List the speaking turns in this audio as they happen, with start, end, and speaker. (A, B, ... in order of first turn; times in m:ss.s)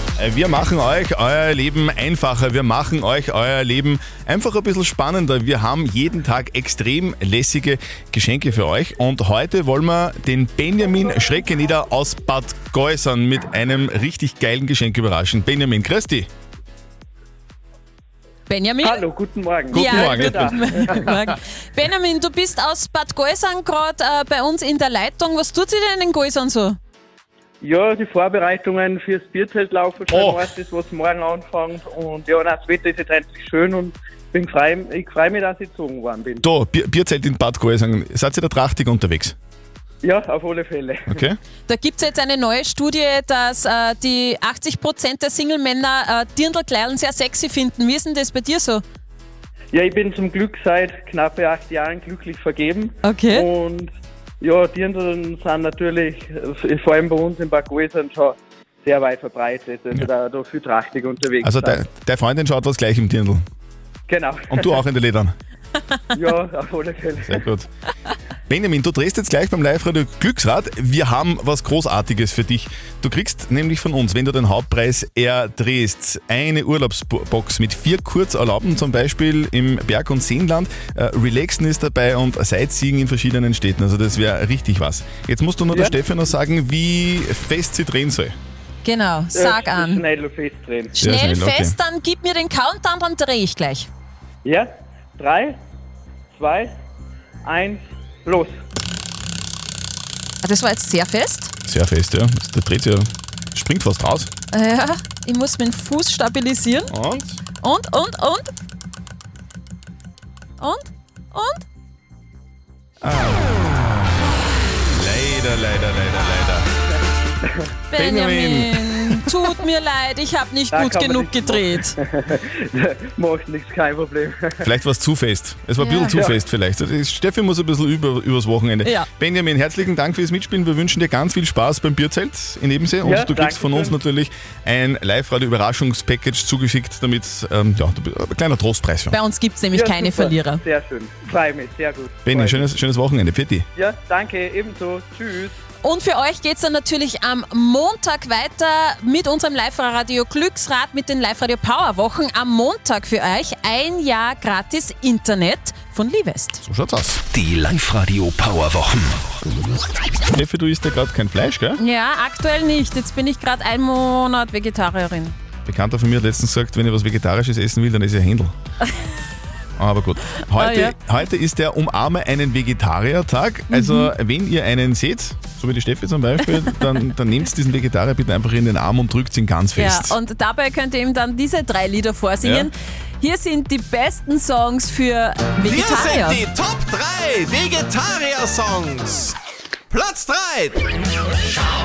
0:00.2-0:16.3 A
0:18.5-0:19.1 B
0:18.8-0:21.1 C
0:19.7-0:26.8 B
0:19.7-0:20.9 A
0:27.6-0:36.4 C
0:30.1-0:30.4 A
0:36.4-0:39.3 A
0:40.0-0:41.2 C
0:41.1-0:41.4 A
0:41.7-0:48.8 B
0:49.7-0:53.9 C
0:53.0-0:53.5 B
0:54.4-1:01.8 C
1:01.4-1:03.4 A
1:04.1-1:04.8 C
1:04.5-1:05.3 A
1:06.1-1:07.4 C
1:07.2-1:07.7 A
1:08.5-1:28.4 A
1:28.8-1:30.0 B
1:29.3-1:30.9 C
1:30.9-1:33.9 B
1:31.0-1:31.8 A
1:34.4-1:35.6 C
1:36.3-1:36.7 C
1:37.4-1:38.5 C
1:40.4-1:41.5 B
1:41.6-1:44.3 A
1:44.5-1:46.9 B
1:46.9-1:47.4 A
1:47.6-1:48.5 B
1:50.6-1:51.6 B
1:53.0-1:54.3 A
1:54.9-1:56.7 A
1:57.9-2:01.9 B
1:57.9-1:59.2 A
2:00.7-2:04.5 C
2:04.6-2:19.2 A
2:05.8-2:06.2 B
2:13.0-2:14.0 C
2:19.1-2:20.6 B
2:19.7-2:22.7 C
2:22.2-2:23.7 A
2:23.8-2:25.5 C
2:25.8-2:36.6 B
2:36.6-2:37.2 A
2:37.3-2:39.4 D
2:40.3-2:41.8 A
2:41.8-2:45.3 B
2:45.6-2:48.5 A
2:49.8-3:00.2 A
2:50.5-2:51.0 B
2:53.7-2:54.1 B
2:59.8-3:06.4 B
3:02.4-3:02.7 A
3:05.6-3:09.3 E
3:09.9-3:10.8 E